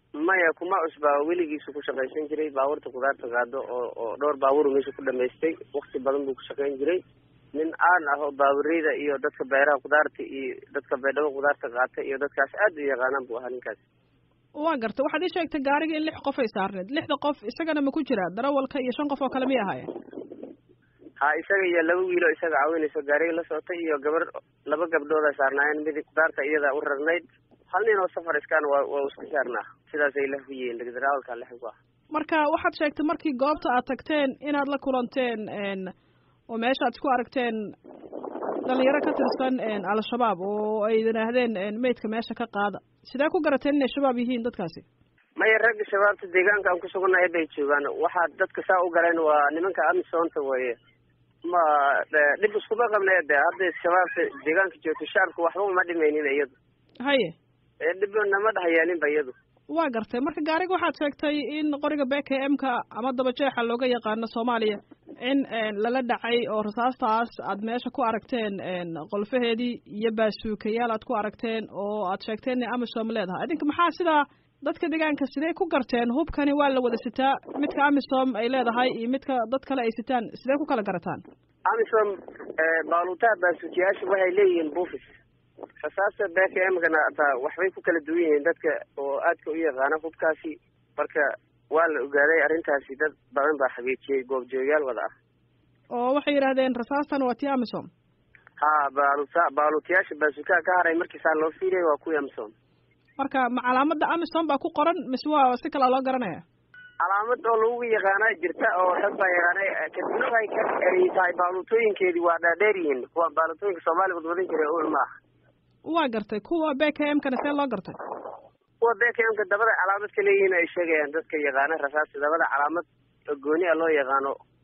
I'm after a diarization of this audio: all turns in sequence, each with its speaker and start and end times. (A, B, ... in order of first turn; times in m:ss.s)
0:00.2-0:07.0 A
0:07.5-0:13.8 A
0:14.6-0:19.9 B
0:21.2-0:31.8 A
0:32.1-0:35.9 B
0:36.5-0:37.6 B
0:38.6-0:44.8 B
0:45.4-0:50.8 A
0:51.5-0:56.5 A
0:57.0-0:57.3 B
0:57.8-0:59.3 A
0:59.7-1:21.2 B
1:21.7-1:25.1 A
1:25.8-1:35.1 A
1:36.0-1:37.9 B
1:38.6-1:42.5 A
1:43.2-1:46.4 B
1:47.0-1:55.0 A
1:55.9-1:58.0 B
1:58.8-2:04.3 A